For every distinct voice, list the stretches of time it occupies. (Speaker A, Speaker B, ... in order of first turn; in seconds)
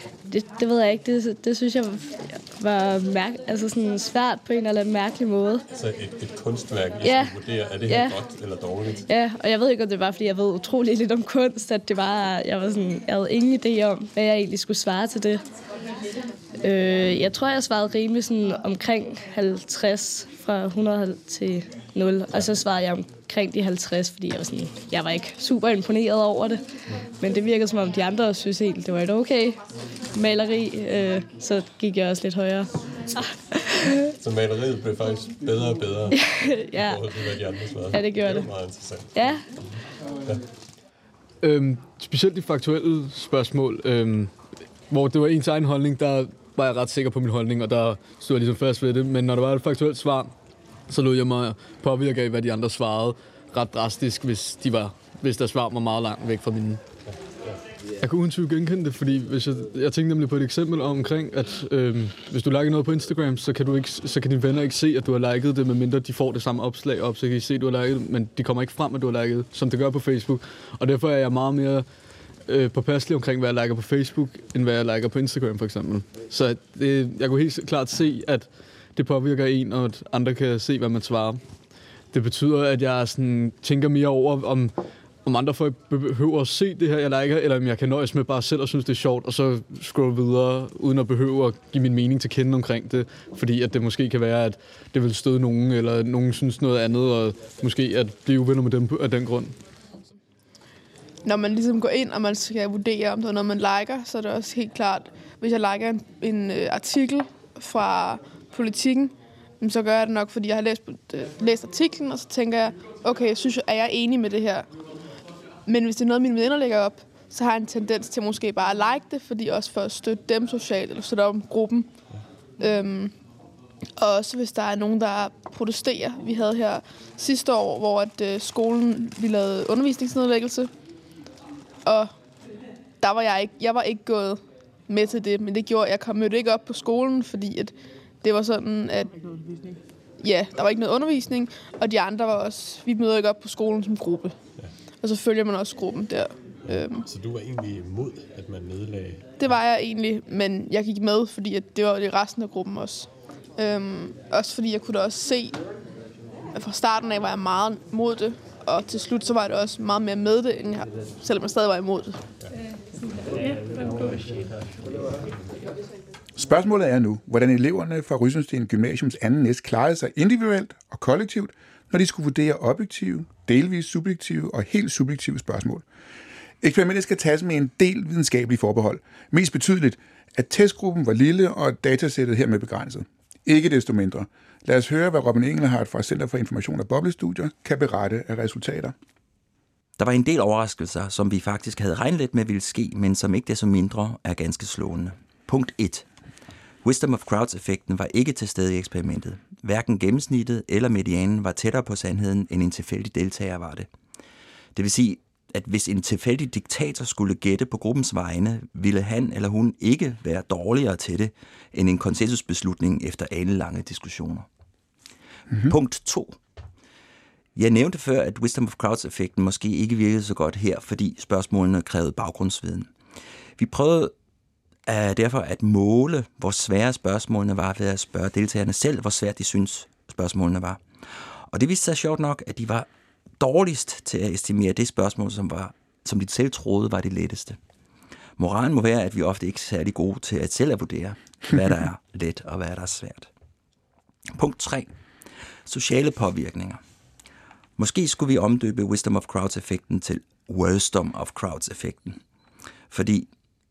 Speaker A: 0.3-5.6, 7.0-8.2, 9.1-15.4, 16.6-26.6, 27.2-29.6, 30.2-34.1, 36.1-37.1, 37.9-39.5
Speaker B: 5.7-9.1, 34.2-36.2, 36.8-39.3, 146.7-149.2
Speaker C: 41.4-44.3, 44.9-50.3, 50.9-56.8, 58.0-71.9, 72.5-81.4, 82.1-99.5
Speaker D: 101.2-114.7, 115.7-121.9, 122.6-123.2, 124.0-130.7, 131.9-132.1, 133.0-139.3, 140.2-144.4, 145.0-147.1, 149.4-155.6, 156.5-162.2
Speaker E: 166.3-175.8, 176.6-188.9
Speaker F: 190.0-196.1, 196.8-203.9, 204.8-214.5, 215.6-216.4, 217.6-222.9, 223.6-224.1, 224.9-230.8, 231.5-232.9, 233.4-237.6, 238.4-243.3, 244.3-244.9, 245.7-246.8, 247.8-252.2, 252.9-253.3